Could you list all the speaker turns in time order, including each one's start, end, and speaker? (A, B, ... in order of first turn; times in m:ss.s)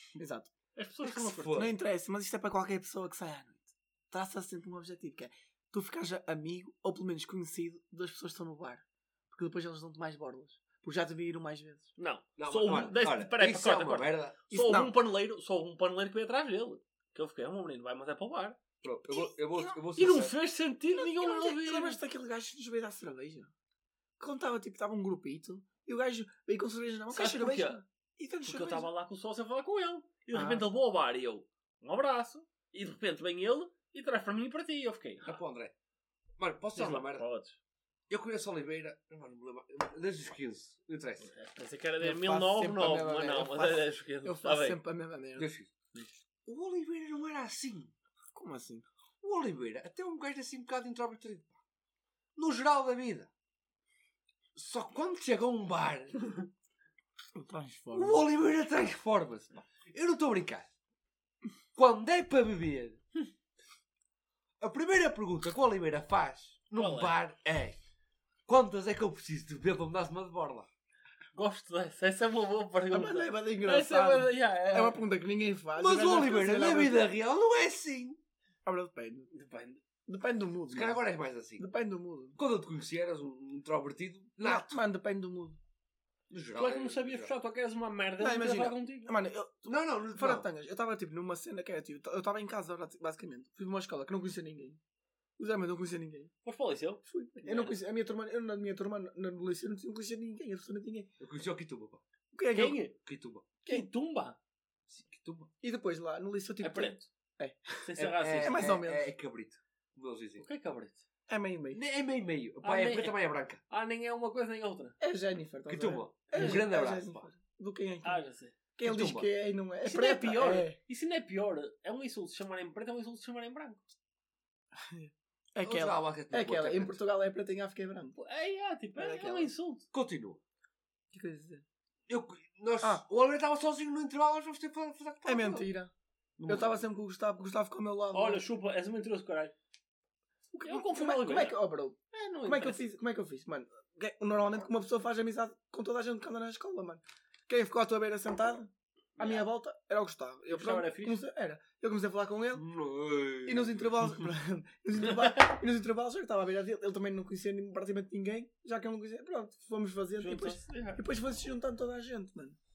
0:00.2-0:00.5 A
0:00.7-0:01.6 B
0:01.2-0:11.9 A
0:01.2-0:01.7 C
0:12.0-0:18.6 B
0:12.4-0:14.4 C
0:14.5-0:15.0 A
0:18.8-0:20.3 C
0:19.1-0:19.8 A
0:19.9-0:22.0 B
0:20.9-0:23.5 A
0:24.2-0:28.9 A
0:27.1-0:27.8 B
0:28.4-0:35.4 B
0:30.3-0:30.7 A
0:35.2-0:35.7 C
0:36.4-0:37.2 C
0:36.7-0:37.6 B
0:38.1-0:41.3 C
0:41.2-0:44.8 B
0:42.0-0:45.5 A
0:45.4-0:45.7 C
0:46.4-0:47.9 C
0:48.3-0:48.8 A
0:49.2-0:51.6 C
0:52.4-0:53.3 C
0:54.5-0:56.2 C
0:57.3-0:58.2 A
0:57.9-1:00.7 C
1:01.7-1:03.0 C
1:04.6-1:07.8 C
1:06.8-1:07.1 B
1:08.5-1:10.7 C
1:11.3-1:15.0 B
1:12.9-1:17.1 A
1:15.8-1:18.2 C
1:18.6-1:19.3 A
1:19.3-1:19.8 B
1:20.0-1:21.0 A
1:20.7-1:21.7 C
1:21.6-1:22.4 A
1:22.4-1:24.8 C
1:24.4-1:25.6 A
1:26.3-1:27.3 C
1:26.5-1:29.1 B
1:28.2-1:34.8 A
1:29.6-1:30.5 C
1:35.4-1:36.3 A
1:36.4-1:37.8 B
1:37.0-1:41.1 A
1:41.2-1:42.0 C
1:42.3-1:42.8 A
1:42.5-1:42.9 B
1:43.0-1:43.4 C
1:43.6-1:44.4 B
1:44.9-1:45.5 C
1:45.6-1:49.1 A
1:46.6-1:47.0 B
1:47.8-1:48.8 B
1:48.0-1:50.4 C
1:50.4-1:51.0 B
1:51.3-1:51.8 A
1:51.7-1:53.6 C
1:52.6-1:53.2 B
1:53.7-1:55.0 B
1:55.0-1:58.2 A
1:55.7-1:57.3 C
1:56.3-1:56.6 B
1:58.0-1:58.6 B
1:58.7-2:00.8 A
1:58.8-1:59.3 C
1:59.8-2:03.8 B
2:04.8-2:08.2 A
2:05.6-2:07.0 C
2:08.2-2:09.8 B
2:09.0-2:09.5 A
2:09.9-2:10.4 C
2:11.1-2:11.6 A
2:12.1-2:15.7 C
2:15.2-2:15.9 A
2:16.4-2:16.8 C
2:16.5-2:18.4 A
2:18.1-2:19.5 B
2:20.5-2:32.6 A
2:20.6-2:21.6 B
2:22.1-2:22.8 B
2:29.2-2:29.5 B
2:30.5-2:31.2 B
2:32.5-2:33.9 C
2:33.4-2:42.6 A
2:35.0-2:35.4 B
2:40.2-2:41.0 B